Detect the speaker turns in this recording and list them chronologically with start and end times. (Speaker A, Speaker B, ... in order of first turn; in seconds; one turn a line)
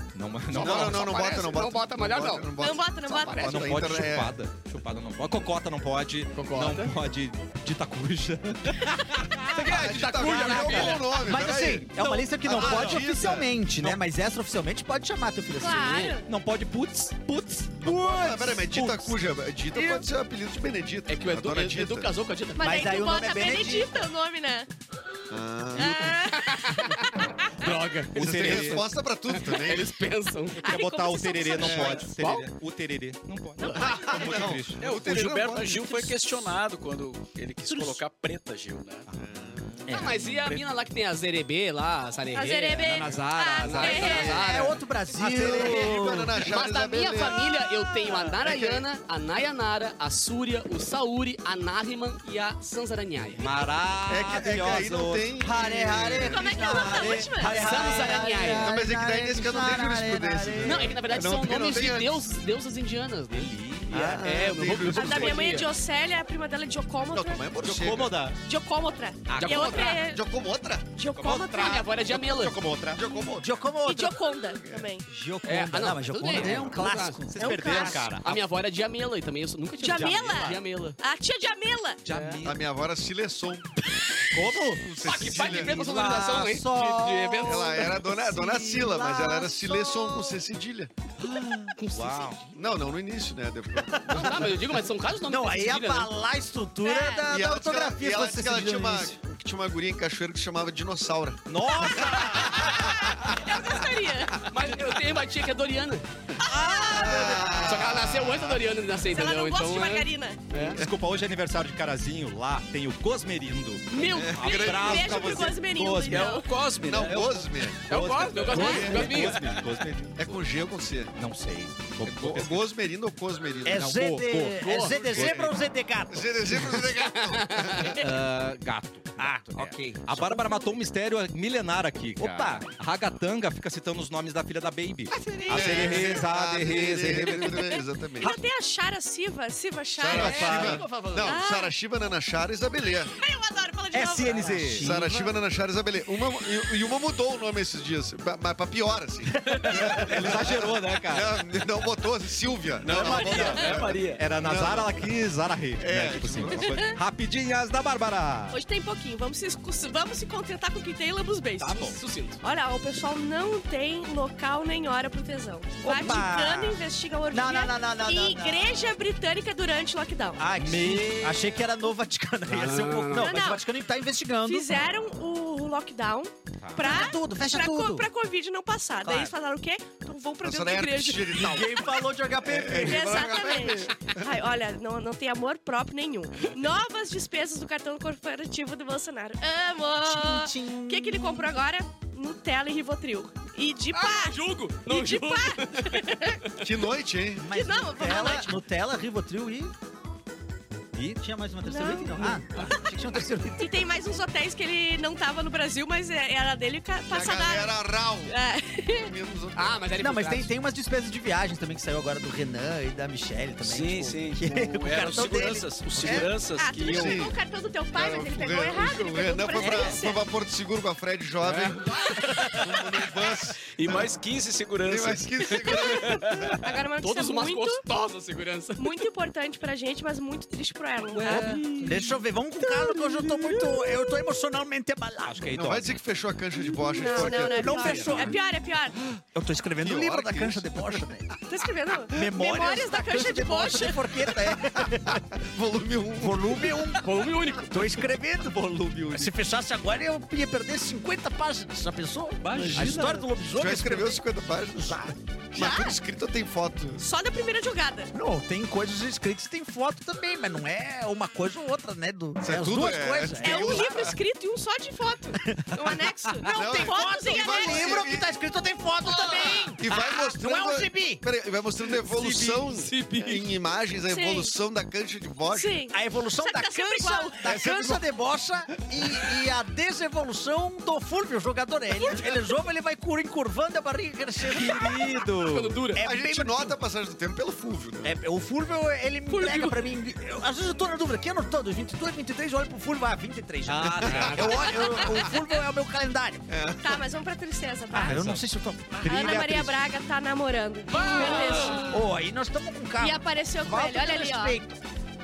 Speaker A: 0.1-1.1
Speaker B: 0.5-2.5
Speaker C: 0.5-4.4
Speaker D: 2.6-3.8
Speaker A: 3.4-11.0
Speaker B: 6.3-6.9
Speaker B: 9.5-11.2
Speaker C: 9.6-13.6
Speaker E: 11.1-16.2
Speaker A: 12.6-13.0
Speaker D: 15.6-16.3
Speaker A: 16.3-18.9
Speaker C: 17.9-22.1
Speaker E: 17.9-19.1
Speaker E: 19.7-20.0
Speaker B: 21.1-22.9
Speaker D: 22.6-24.7
Speaker E: 22.6-23.9
Speaker C: 25.3-26.2
Speaker D: 25.8-27.7
Speaker B: 25.8-30.7
Speaker A: 28.1-28.9
Speaker C: 28.2-29.9
Speaker D: 30.6-32.1
Speaker A: 30.6-34.8
Speaker C: 31.6-32.1
Speaker B: 32.0-32.5
Speaker D: 33.6-34.3
Speaker C: 33.8-36.1
Speaker F: 34.8-39.1
Speaker A: 37.7-38.0
Speaker A: 39.1-40.4
Speaker C: 39.2-39.8
Speaker E: 39.9-40.2
Speaker B: 39.9-44.8
Speaker F: 40.5-40.8
Speaker D: 42.3-44.4
Speaker A: 42.8-44.5
Speaker E: 43.9-46.4
Speaker C: 45.1-48.9
Speaker B: 45.4-45.9
Speaker B: 46.4-53.5
Speaker A: 53.4-55.4
Speaker D: 53.4-53.6
Speaker C: 54.1-57.2
Speaker E: 55.4-61.0
Speaker D: 56.2-58.1
Speaker A: 56.7-57.3
Speaker B: 57.4-58.8
Speaker C: 58.4-62.3
Speaker B: 60.6-65.7
Speaker A: 63.3-64.1
Speaker C: 63.9-65.5
Speaker D: 65.0-67.5
Speaker C: 67.1-68.2
Speaker A: 67.6-68.4
Speaker D: 68.4-70.2
Speaker A: 69.3-70.0
Speaker B: 69.4-70.0
Speaker C: 70.0-70.9
Speaker D: 71.0-71.9
Speaker A: 71.1-73.0
Speaker B: 71.5-72.6
Speaker C: 72.9-73.5
Speaker D: 73.0-75.1
Speaker E: 73.4-74.2
Speaker C: 74.6-74.9
Speaker E: 75.1-77.9
Speaker B: 75.5-81.0
Speaker A: 76.4-76.8
Speaker A: 77.3-78.4
Speaker D: 77.4-78.1
Speaker D: 79.8-82.0
Speaker A: 79.9-80.5
Speaker A: 82.0-82.6
Speaker B: 82.1-82.4
Speaker C: 82.4-83.7
Speaker A: 84.3-85.6
Speaker C: 84.4-85.8
Speaker B: 85.0-87.8
Speaker E: 85.5-90.3
Speaker C: 87.4-90.9
Speaker A: 91.2-92.4
Speaker B: 91.8-92.5
Speaker C: 92.5-94.5
Speaker E: 93.8-94.5
Speaker B: 94.1-96.1
Speaker E: 95.3-99.2
Speaker D: 96.8-97.3
Speaker C: 97.3-103.3
Speaker A: 101.5-103.1
Speaker D: 101.8-104.5
Speaker B: 104.4-106.1
Speaker D: 106.4-107.5
Speaker A: 106.4-107.5
Speaker C: 106.9-108.6
Speaker E: 107.2-107.5
Speaker B: 107.5-110.8
Speaker D: 109.1-110.5
Speaker A: 110.7-116.4
Speaker B: 113.9-114.5
Speaker D: 114.0-116.5
Speaker C: 114.1-115.6
Speaker F: 116.1-118.7
Speaker C: 116.8-117.9
Speaker A: 117.9-120.4
Speaker B: 117.9-119.6
Speaker D: 118.5-118.9
Speaker C: 118.6-119.6
Speaker F: 119.3-119.6
Speaker C: 120.2-121.2
Speaker A: 121.2-122.7
Speaker C: 122.0-124.0
Speaker E: 123.7-126.8
Speaker A: 123.7-125.6
Speaker B: 124.5-125.1
Speaker C: 125.2-125.4
Speaker C: 126.1-128.0
Speaker B: 127.0-128.0
Speaker A: 127.9-137.8
Speaker E: 129.2-130.6
Speaker E: 132.2-132.7
Speaker E: 135.1-135.9
Speaker D: 135.4-136.0
Speaker C: 135.5-138.3
Speaker D: 138.2-140.6
Speaker C: 140.0-143.1
Speaker A: 140.1-140.9
Speaker B: 140.2-141.4
Speaker D: 141.2-141.7
Speaker D: 143.1-144.6
Speaker E: 143.9-145.3
Speaker A: 144.3-145.0
Speaker C: 144.8-155.1
Speaker E: 149.4-150.1
Speaker A: 149.7-151.4
Speaker F: 152.8-154.3
Speaker A: 153.0-158.6
Speaker C: 155.8-156.9
Speaker D: 156.6-157.0
Speaker D: 158.5-170.4
Speaker A: 161.6-162.0
Speaker B: 161.6-162.4
Speaker E: 165.8-168.9
Speaker E: 170.4-174.7
Speaker A: 170.6-171.4
Speaker B: 172.5-173.4
Speaker D: 173.1-173.6
Speaker D: 174.4-181.7
Speaker A: 176.6-176.9
Speaker E: 176.8-178.1
Speaker E: 179.0-179.3
Speaker C: 180.4-181.8
Speaker E: 181.3-183.3
Speaker C: 182.4-184.2
Speaker D: 182.8-196.4
Speaker E: 190.0-191.5
Speaker B: 193.9-196.5
Speaker C: 196.6-197.5
Speaker E: 197.4-199.7
Speaker D: 197.5-198.6
Speaker A: 200.9-201.2
Speaker E: 201.2-203.8
Speaker D: 201.6-202.8
Speaker D: 203.6-209.1
Speaker C: 207.1-208.3
Speaker C: 208.9-209.9
Speaker B: 209.6-210.5
Speaker E: 210.0-216.3
Speaker F: 213.6-217.2
Speaker D: 216.6-220.2
Speaker C: 216.8-217.4
Speaker C: 217.9-224.1
Speaker B: 221.4-222.7
Speaker F: 223.7-226.6
Speaker C: 224.8-226.5
Speaker D: 225.7-227.8
Speaker B: 227.0-229.0
Speaker D: 228.8-231.7
Speaker A: 231.2-232.0
Speaker E: 231.2-235.6
Speaker A: 235.2-236.0
Speaker C: 235.5-238.4
Speaker D: 236.7-239.0
Speaker E: 237.0-238.4
Speaker E: 239.3-241.3
Speaker C: 239.8-241.1
Speaker D: 241.5-244.1
Speaker E: 242.1-245.2
Speaker C: 244.5-246.8
Speaker E: 246.2-254.2
Speaker B: 247.0-247.9
Speaker A: 248.7-249.3
Speaker F: 252.5-253.2
Speaker A: 252.7-253.0
Speaker C: 252.8-257.0
Speaker E: 254.8-255.1
Speaker D: 255.6-256.0
Speaker D: 257.0-258.1
Speaker E: 258.1-264.2
Speaker C: 262.4-264.2
Speaker D: 263.4-268.1
Speaker E: 265.4-271.2
Speaker C: 266.5-268.4
Speaker D: 269.2-269.7
Speaker C: 269.8-275.8
Speaker E: 272.0-272.7
Speaker B: 272.7-273.4
Speaker D: 274.1-274.6
Speaker D: 275.5-277.9
Speaker E: 275.9-285.2
Speaker C: 277.4-278.0
Speaker A: 284.5-285.8
Speaker B: 285.4-286.0
Speaker E: 285.9-286.8
Speaker C: 286.0-288.2
Speaker E: 288.0-296.5
Speaker D: 289.3-289.6
Speaker A: 293.7-294.6
Speaker B: 294.0-295.0
Speaker C: 294.1-294.5
Speaker D: 294.7-295.2
Speaker C: 296.5-297.0
Speaker D: 296.8-298.3
Speaker E: 297.9-299.7
Speaker A: 298.0-298.5
Speaker A: 299.0-299.6
Speaker D: 299.1-302.0
Speaker B: 300.9-302.0
Speaker E: 301.1-304.8
Speaker D: 303.0-304.6